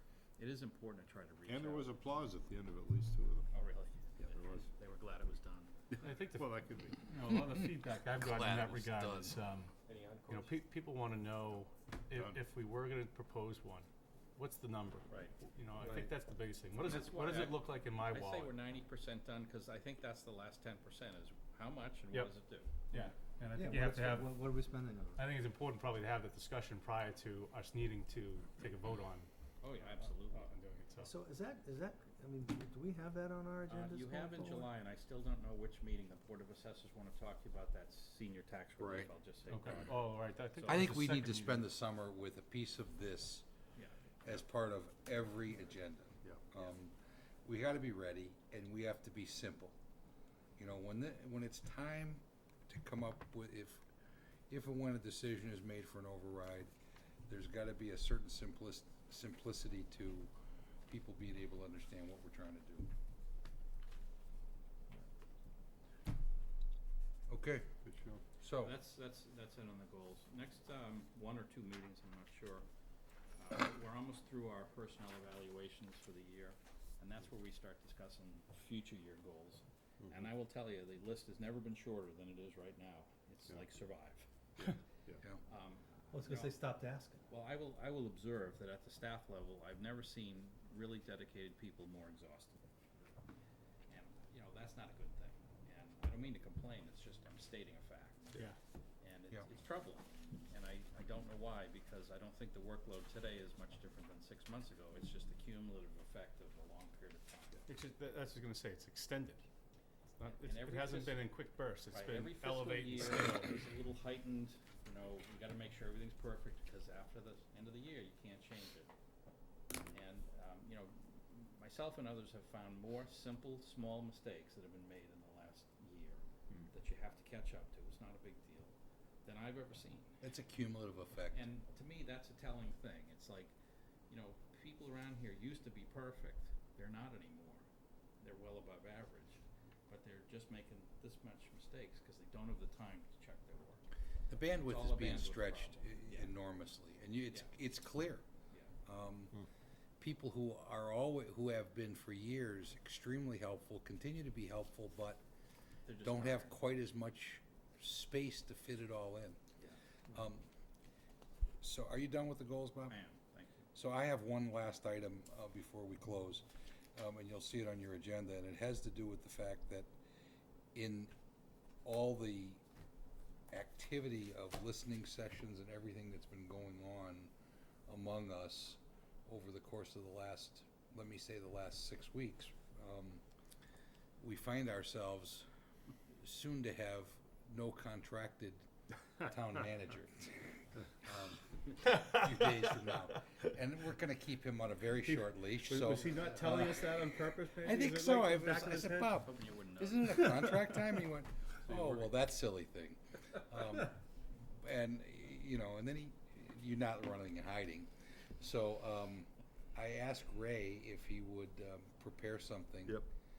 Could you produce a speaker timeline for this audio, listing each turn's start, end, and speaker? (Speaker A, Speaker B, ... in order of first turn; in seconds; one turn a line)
Speaker A: 0.4-1.9
Speaker B: 1.5-3.5
Speaker A: 3.5-5.7
Speaker B: 4.2-4.7
Speaker B: 5.9-7.2
Speaker C: 6.0-9.7
Speaker A: 8.2-10.5
Speaker C: 10.3-18.5
Speaker B: 12.1-12.4
Speaker A: 15.1-15.3
Speaker A: 16.9-23.0
Speaker C: 22.9-24.4
Speaker D: 23.6-25.2
Speaker C: 25.2-29.3
Speaker A: 29.6-30.5
Speaker C: 29.9-31.1
Speaker D: 31.0-34.7
Speaker A: 33.7-40.8
Speaker E: 38.8-39.1
Speaker C: 39.5-41.7
Speaker E: 40.7-43.5
Speaker E: 44.2-49.8
Speaker E: 50.6-53.8
Speaker E: 54.5-56.7
Speaker E: 57.3-60.3
Speaker E: 60.9-62.9
Speaker E: 67.3-67.7
Speaker B: 67.8-68.2
Speaker E: 68.4-68.8
Speaker A: 68.5-72.7
Speaker A: 73.4-84.3
Speaker B: 84.6-85.2
Speaker A: 85.5-86.5
Speaker D: 86.1-87.2
Speaker A: 87.3-92.6
Speaker A: 93.9-98.4
Speaker A: 99.0-107.7
Speaker C: 107.7-109.5
Speaker C: 110.2-113.5
Speaker A: 110.2-111.3
Speaker A: 111.9-118.9
Speaker A: 119.9-130.2
Speaker E: 130.2-131.4
Speaker A: 131.3-133.5
Speaker A: 134.1-137.7
Speaker A: 138.2-143.9
Speaker E: 144.3-148.2
Speaker A: 144.6-146.3
Speaker E: 148.8-149.4
Speaker E: 150.0-155.2
Speaker A: 155.9-156.6
Speaker E: 156.0-159.4
Speaker E: 160.1-160.4
Speaker E: 161.6-163.0
Speaker A: 162.9-163.7
Speaker E: 163.7-169.9
Speaker E: 170.8-171.1
Speaker E: 171.8-172.6
Speaker E: 173.5-177.3
Speaker E: 177.9-183.2
Speaker E: 184.2-185.5
Speaker E: 186.2-204.0
Speaker C: 195.0-199.2
Speaker A: 195.9-196.6
Speaker A: 199.2-200.5
Speaker A: 201.6-202.1
Speaker E: 204.6-213.1